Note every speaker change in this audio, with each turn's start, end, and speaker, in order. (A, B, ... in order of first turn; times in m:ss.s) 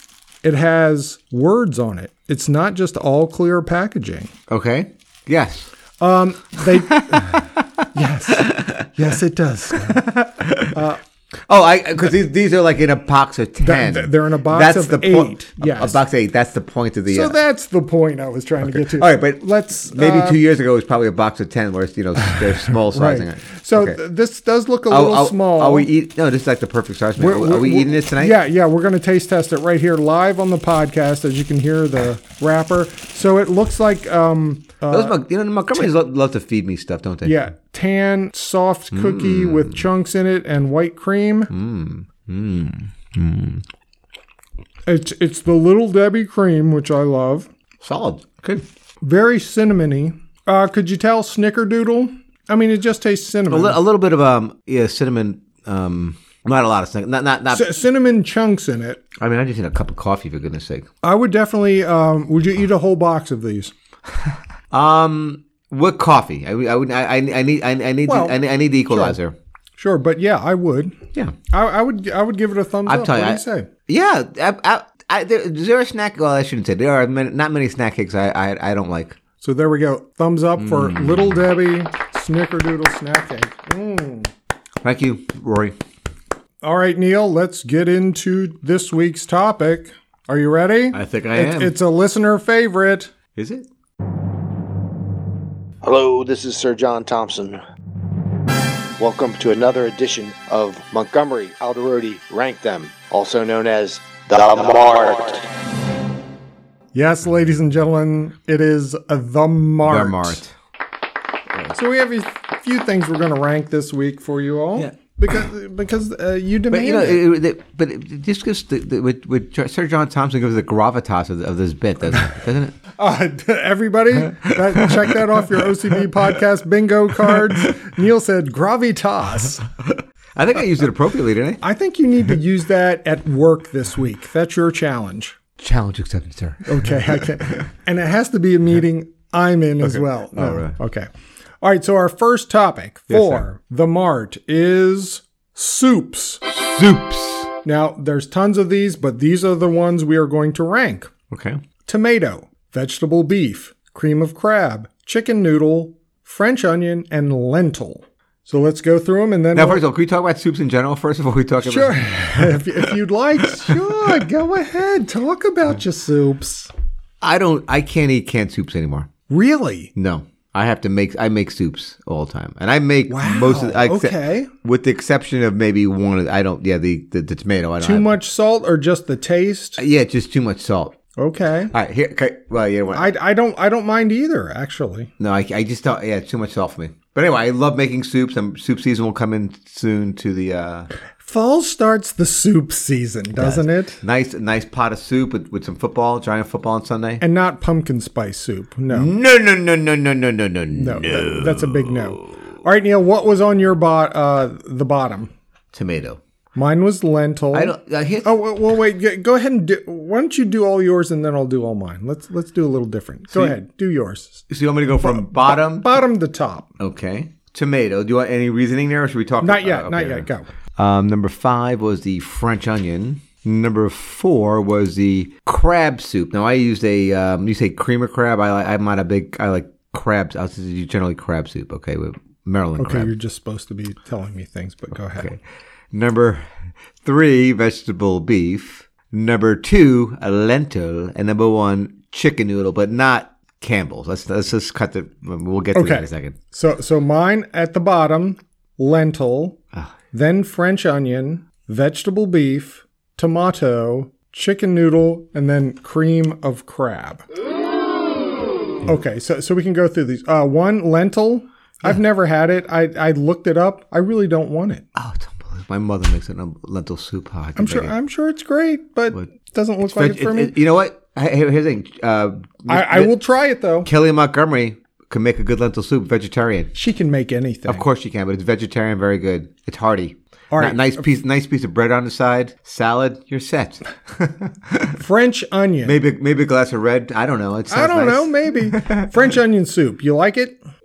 0:00.4-0:04.3 A
0:04.5-0:05.7 B
0:06.0-0:10.1 A
0:06.7-0:07.4 B
0:08.4-0:08.9 B
0:09.8-0:10.8 B
0:10.7-0:11.0 A
0:11.5-0:17.4 B
0:13.6-0:16.0 A
0:17.1-0:20.4 A
0:18.6-0:24.0 B
0:22.7-0:25.9 A
0:24.9-0:28.4 B
0:27.2-0:35.2 A
0:34.9-0:37.4 B
0:37.2-0:41.5 A
0:38.9-0:39.8 B
0:41.5-0:43.6 B
0:44.9-0:47.5 A
0:47.8-0:48.6 B
0:49.0-0:53.8 A
0:53.5-0:57.7 B
0:57.5-0:59.0 A
0:59.2-1:00.9 B
1:01.0-1:03.7 A
1:04.7-1:09.4 B
1:08.1-1:09.2 A
1:09.8-1:11.0 A
1:11.5-1:13.7 A
1:12.9-1:19.2 B
1:19.4-1:24.3 A
1:20.6-1:21.4 B
1:24.8-1:25.8 B
1:26.6-1:33.1 A
1:30.9-1:31.8 B
1:33.4-1:33.7 B
1:35.8-1:37.6 C
1:39.0-1:45.5 C
1:46.9-1:50.4 A
1:49.8-1:50.5 B
1:51.7-1:57.2 A
1:56.7-2:02.8 B
2:03.0-2:09.6 A
2:04.6-2:05.2 B
2:07.3-2:07.7 B
2:10.4-2:11.6 B
2:11.6-2:15.4 A
2:15.6-2:17.2 B
2:16.6-2:21.1 A
2:19.8-2:20.8 B
2:21.6-2:26.4 A
2:23.1-2:23.4 B
2:26.4-2:27.5 B
2:27.6-2:31.1 A
2:31.3-2:31.6 B
2:31.9-2:39.8 A
2:39.5-2:42.6 B
2:41.6-2:46.7 A
2:43.6-2:43.9 B
2:47.2-2:49.1 B
2:49.3-2:49.9 A
2:50.0-2:58.2 B
2:53.1-2:54.5 A
2:57.8-2:59.8 A
2:59.8-3:01.0 B
3:01.2-3:01.7 A
3:01.7-3:03.1 B
3:02.9-3:05.1 A
3:05.2-3:10.9 B
3:11.2-3:14.0 A
3:13.4-3:17.2 B
3:17.2-3:19.1 A
3:18.9-3:22.4 B
3:20.7-3:25.3 A
3:25.7-3:26.2 B
3:26.6-3:34.4 A
3:27.5-3:28.4 B
3:33.3-3:33.6 B
3:34.5-3:36.0 B
3:35.0-3:36.7 A
3:36.8-3:53.1 B
3:39.4-3:40.5 A
3:52.8-3:55.3 A
3:55.2-3:55.4 B
3:55.9-3:56.5 B
3:57.0-4:06.4 B
4:05.8-4:09.6 A
4:10.1-4:17.2 A
4:18.8-4:24.9 A
4:25.0-4:27.9 B
4:27.6-4:30.6 A
4:29.8-4:33.2 B
4:32.7-4:33.9 A
4:33.8-4:36.7 B
4:36.7-4:37.8 A
4:37.7-4:45.0 B
4:40.5-4:41.0 A
4:45.0-4:46.0 A
4:45.8-4:49.0 B
4:47.7-4:50.6 A